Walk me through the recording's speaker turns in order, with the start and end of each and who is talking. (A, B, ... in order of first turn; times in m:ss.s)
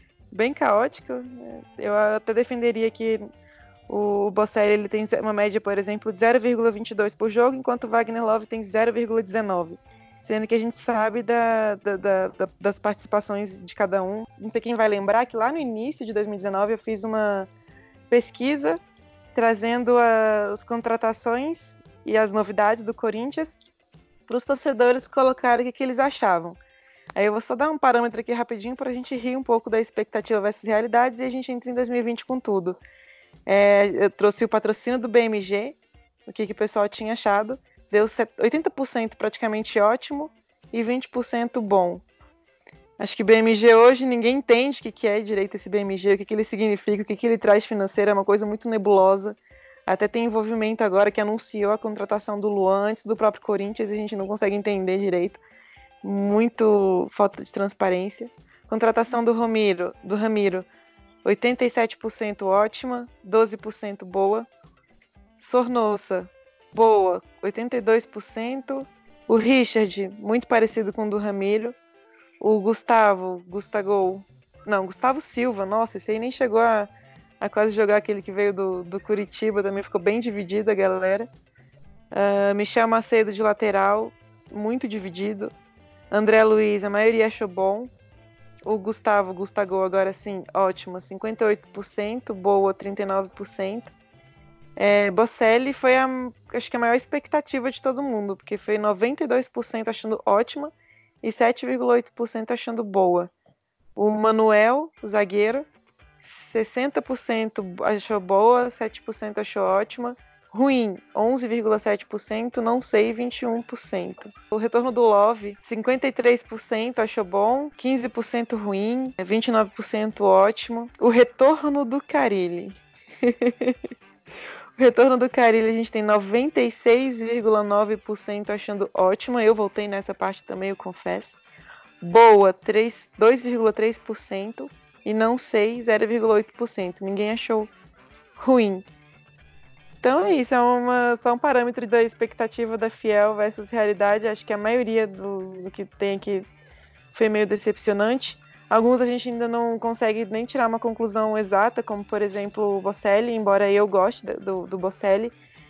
0:00.3-0:03.3 A
0:03.9-0:17.5 A
0:18.1-0:18.8 A
0:19.4-0:23.6 A
0:24.3-0:26.6 A
0:27.2-0:32.8 A
0:33.5-0:42.0 A
0:43.0-0:55.4 A
0:56.0-1:00.7 A
1:01.2-1:04.5 A
1:05.4-1:11.8 A
1:12.4-1:16.9 A
1:17.4-1:21.3 A
1:22.1-1:25.5 A
1:26.1-1:27.9 A
1:28.6-1:33.9 A
1:34.8-1:43.3 A
1:44.0-1:45.7 A
1:46.2-2:03.8 A
2:04.8-2:11.4 A
2:12.0-2:17.7 A
2:18.4-2:18.8 A
2:20.0-2:26.5 A
2:27.1-2:35.4 A